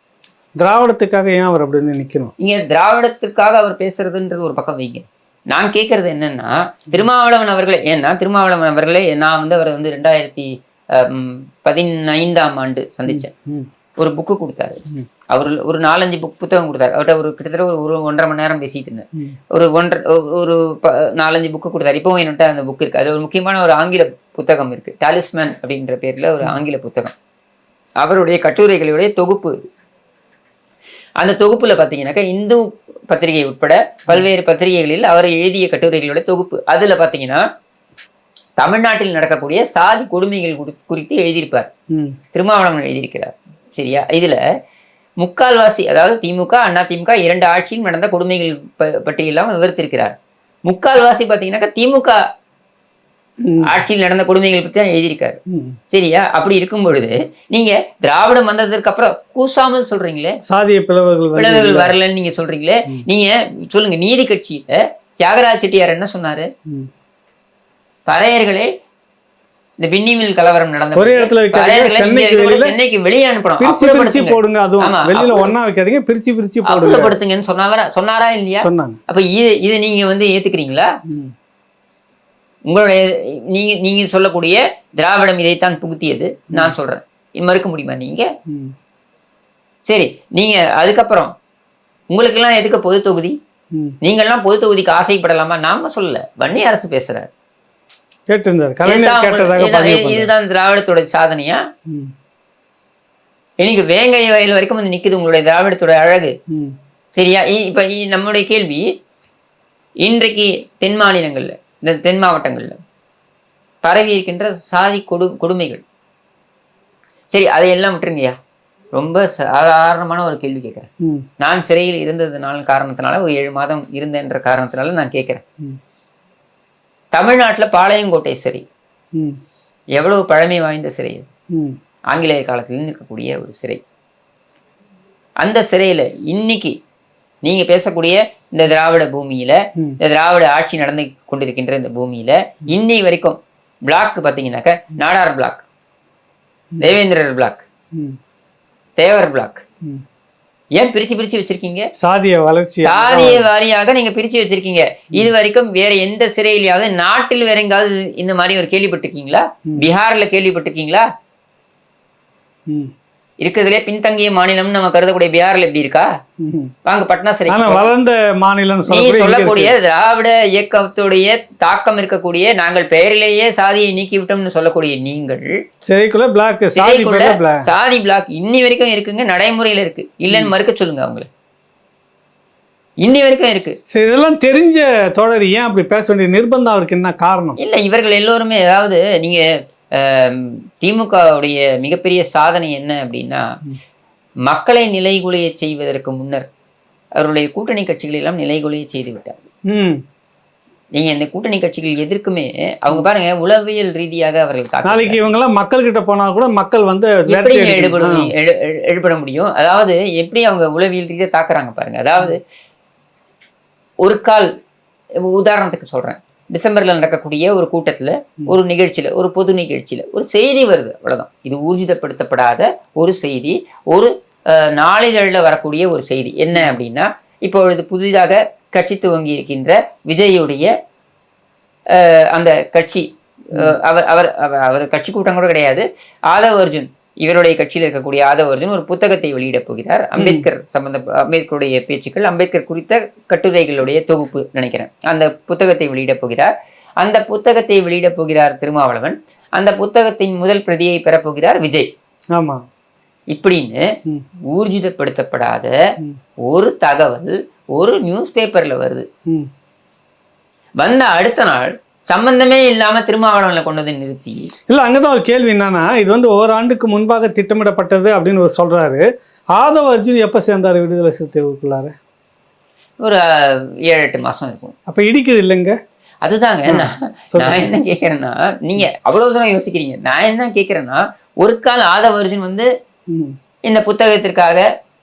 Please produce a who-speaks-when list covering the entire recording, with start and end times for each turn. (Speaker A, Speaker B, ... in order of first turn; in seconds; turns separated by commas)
Speaker A: 0.6-2.3, Speaker B: 2.4-13.3, Speaker A: 13.1-13.7, Speaker B: 14.0-27.1, Speaker B: 28.0-29.6, Speaker B: 31.2-37.4, Speaker B: 38.6-41.7, Speaker A: 41.9-42.2, Speaker B: 42.3-44.4, Speaker B: 45.2-50.1, Speaker B: 50.7-52.2, Speaker A: 53.4-53.8, Speaker B: 53.6-55.4, Speaker A: 55.5-55.8, Speaker B: 55.9-60.3, Speaker A: 60.5-61.9, Speaker B: 61.4-66.5, Speaker B: 68.1-68.7, Speaker B: 69.8-75.5, Speaker A: 70.9-72.7, Speaker A: 73.6-77.1, Speaker B: 76.7-80.9, Speaker A: 78.6-79.0, Speaker A: 81.1-81.3, Speaker B: 82.7-88.3, Speaker A: 88.5-88.7, Speaker B: 89.9-91.3, Speaker B: 92.1-93.3, Speaker B: 94.0-97.3, Speaker A: 98.3-100.3, Speaker B: 98.8-101.6, Speaker B: 103.6-106.3, Speaker A: 106.5-106.7, Speaker B: 107.2-108.8, Speaker B: 110.0-112.8, Speaker B: 113.8-115.8, Speaker B: 117.3-118.4, Speaker B: 118.9-120.9, Speaker B: 121.4-125.4, Speaker B: 127.1-128.6, Speaker B: 130.0-131.3, Speaker B: 132.1-133.8, Speaker B: 135.4-136.7, Speaker B: 137.4-145.6, Speaker B: 146.8-147.6, Speaker B: 149.0-149.6, Speaker B: 150.8-151.9, Speaker A: 152.0-153.4, Speaker B: 152.8-161.1, Speaker B: 163.4-166.1, Speaker A: 166.4-166.7, Speaker B: 166.8-167.9, Speaker A: 167.5-169.7, Speaker B: 168.9-175.5, Speaker A: 175.9-177.7, Speaker B: 176.7-181.3, Speaker B: 183.0-183.8, Speaker A: 183.9-187.6, Speaker B: 187.6-189.4, Speaker B: 189.9-193.4, Speaker B: 194.5-196.5, Speaker B: 197.2-199.4, Speaker A: 199.7-200.0, Speaker B: 200.9-205.2, Speaker A: 204.8-208.3, Speaker B: 207.3-212.4, Speaker B: 214.0-214.5, Speaker B: 215.3-230.7, Speaker B: 231.9-251.9, Speaker A: 240.2-240.4, Speaker A: 252.3-252.6, Speaker B: 253.3-253.8, Speaker B: 254.5-255.7, Speaker B: 256.4-259.1, Speaker B: 260.8-264.5, Speaker A: 264.7-269.0, Speaker A: 269.6-271.9, Speaker B: 273.0-274.7, Speaker A: 274.9-275.8, Speaker B: 276.2-282.7, Speaker A: 276.7-277.8, Speaker A: 283.1-283.4, Speaker B: 283.7-284.6